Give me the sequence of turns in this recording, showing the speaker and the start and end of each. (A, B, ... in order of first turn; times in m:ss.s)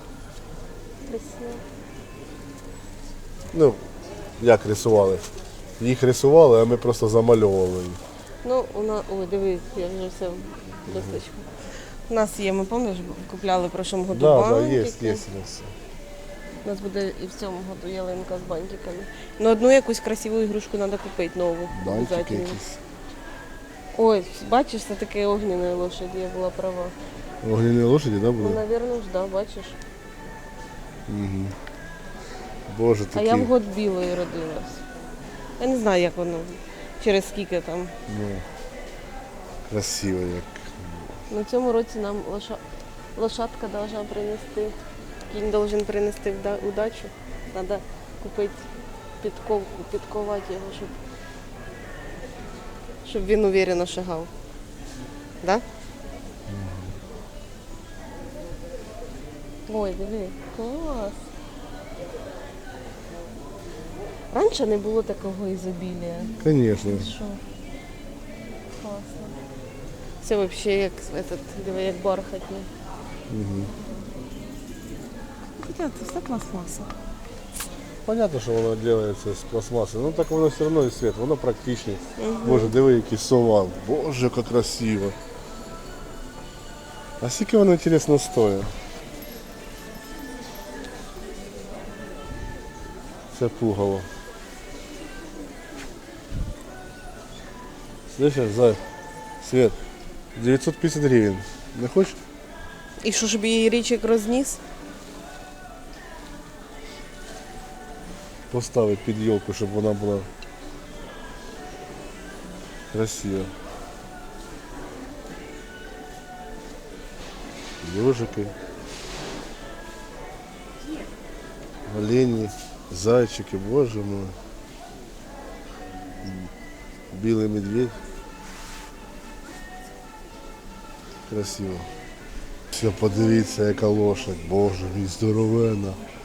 0:01.1-0:01.6 A
0:03.5-0:03.8 B
0:04.4-0:05.3 B
0:05.8-0:08.0 B
0:08.4-0:15.2 A
0:10.9-0:11.2 B
0:14.1-0:15.7 B
0:16.6-0:22.6 A
0:21.7-0:22.8 B
0:23.9-0:26.9 A
0:27.4-0:28.6 B
0:28.4-0:29.8 A
0:31.1-0:31.5 B
0:32.7-0:33.5 B
0:33.1-0:34.8 A
0:35.6-0:37.9 A
0:38.1-0:38.4 B
0:39.7-0:41.2 B
0:41.3-0:42.6 A
0:43.2-0:44.8 A
0:45.3-0:48.6 A
0:49.2-0:50.9 A
0:53.0-0:54.3 A
0:56.5-0:56.9 B
0:59.7-1:01.2 A
1:04.3-1:07.4 A
1:06.4-1:07.1 B
1:08.8-1:09.4 A
1:10.2-1:12.7 A
1:13.3-1:13.7 B
1:15.6-1:16.9 A
1:18.0-1:25.2 B
1:22.2-1:22.8 A
1:27.2-1:28.7 B
1:33.3-1:34.1 B
1:38.1-1:38.8 B
1:39.4-1:39.8 B
1:40.4-1:42.2 B
1:43.0-1:44.6 A
1:48.5-1:50.3 B
1:52.9-1:53.5 B
1:57.8-1:58.5 B
2:01.9-2:04.4 B
2:06.2-2:06.5 B
2:07.1-2:08.0 B
2:11.3-2:11.9 B
2:12.7-2:16.0 B